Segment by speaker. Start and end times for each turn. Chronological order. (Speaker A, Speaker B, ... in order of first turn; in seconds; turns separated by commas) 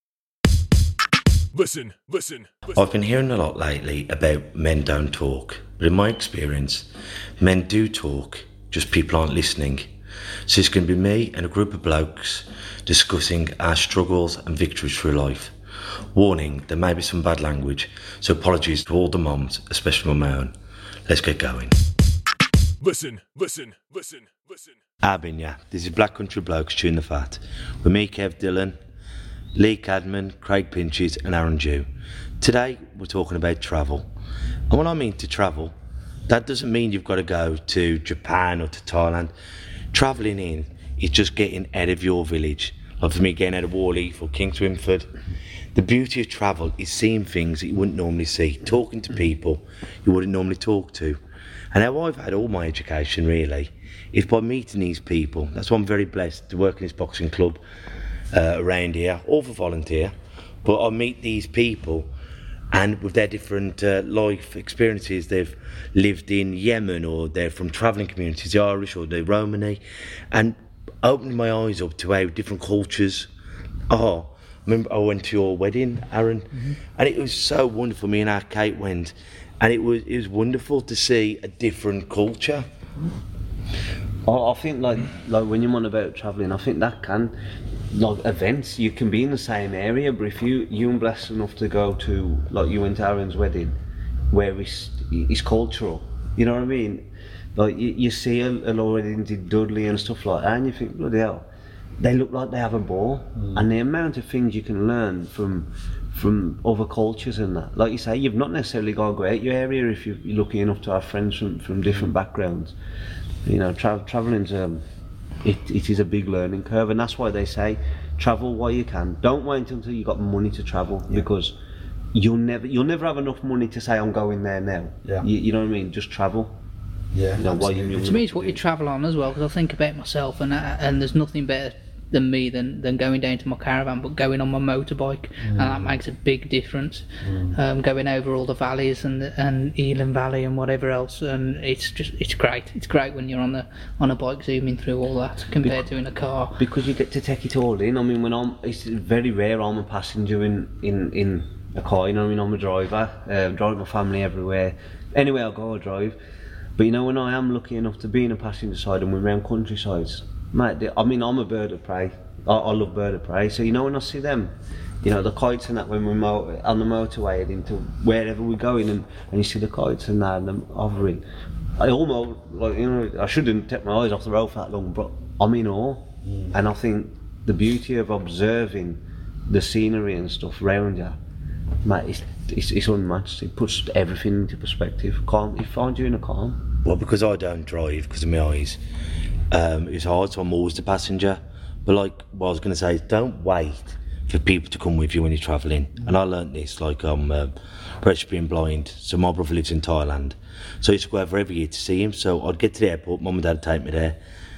Speaker A: 1.5-2.8, Speaker B: 2.8-6.9, Speaker B: 7.4-9.9, Speaker B: 10.5-15.6, Speaker B: 16.1-20.5, Speaker B: 21.1-21.8, Speaker A: 22.8-24.8, Speaker B: 25.0-28.8, Speaker B: 29.6-31.9, Speaker B: 32.4-34.1, Speaker B: 34.7-35.8, Speaker B: 36.3-39.3, Speaker B: 39.9-45.1, Speaker B: 45.7-51.2, Speaker B: 51.7-57.6, Speaker B: 58.3-62.1, Speaker B: 62.7-69.8, Speaker B: 70.3-73.3, Speaker B: 73.9-82.7, Speaker C: 84.2-87.3, Speaker C: 87.9-93.8, Speaker C: 94.3-101.5, Speaker C: 102.0-112.8, Speaker D: 103.4-103.7, Speaker C: 113.5-114.8, Speaker C: 115.4-121.5, Speaker C: 122.1-126.6, Speaker D: 127.1-128.0, Speaker C: 127.4-128.6, Speaker E: 128.0-146.6, Speaker D: 135.4-136.0, Speaker D: 137.2-137.6, Speaker C: 146.6-156.2, Speaker C: 156.8-171.2, Speaker C: 171.8-181.2, Speaker D: 176.2-176.6, Speaker C: 181.8-186.6, Speaker B: 186.8-188.8, Speaker B: 189.5-204.2